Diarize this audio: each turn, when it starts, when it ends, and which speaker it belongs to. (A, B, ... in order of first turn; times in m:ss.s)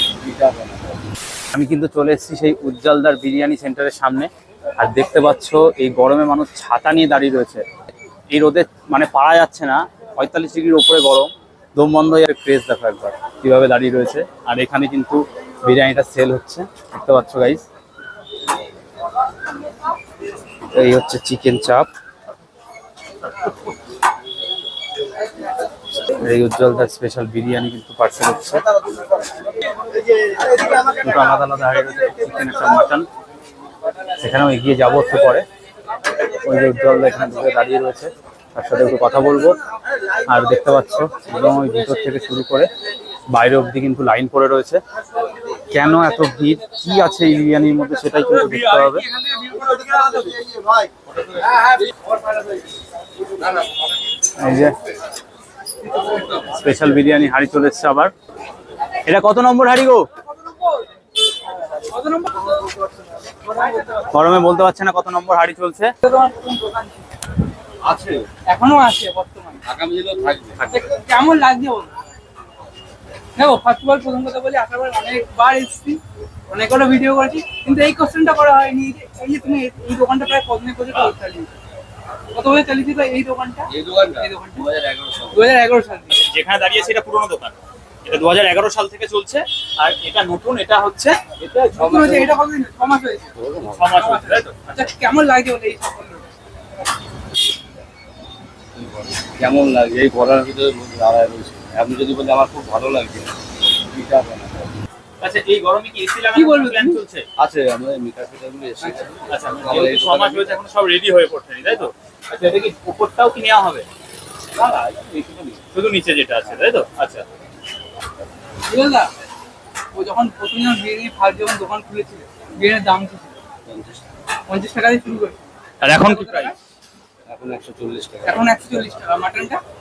0:00.2-0:01.0 A
0:01.5-0:07.6 B
0:08.3-0:17.6 B
0:20.7-0:21.9 B
0:26.2-0:28.6 B
0:30.8-0:33.0 B
0:34.2-0:35.4 B
0:36.4-0:39.6 B
0:40.3-0:42.7 B
0:43.3-0:44.8 B
0:45.7-0:49.0 B
0:48.5-0:50.6 C
0:54.4-0:54.7 B
0:55.9-0:56.5 C
0:56.5-0:58.1 B
0:59.0-1:00.1 B
1:00.5-1:00.8 C
1:01.8-1:02.7 C
1:03.4-1:04.1 C
1:04.1-1:05.9 B
1:06.0-1:07.0 C
1:07.8-1:08.3 A
1:08.4-1:09.6 C
1:09.6-1:10.8 A
1:10.6-1:12.0 C
1:13.4-1:21.5 C
1:22.3-1:24.7 C
1:23.7-1:25.5 A
1:25.3-1:26.2 C
1:26.1-1:31.2 B
1:31.4-1:32.4 A
1:31.7-1:33.3 C
1:33.4-1:34.0 A
1:33.7-1:34.7 B
1:34.0-1:36.3 C
1:38.8-1:43.4 A
1:43.9-1:44.7 A
1:45.2-1:47.2 B
1:46.3-1:47.0 C
1:47.4-1:50.6 A
1:48.8-1:49.1 C
1:49.3-1:53.8 B
1:54.5-1:55.6 A
1:55.7-1:57.2 B
1:58.7-1:59.1 C
1:59.9-2:03.4 C
2:03.7-2:04.0 A
2:04.5-2:06.6 C
2:05.8-2:06.5 B
2:07.3-2:08.8 A
2:08.2-2:09.6 C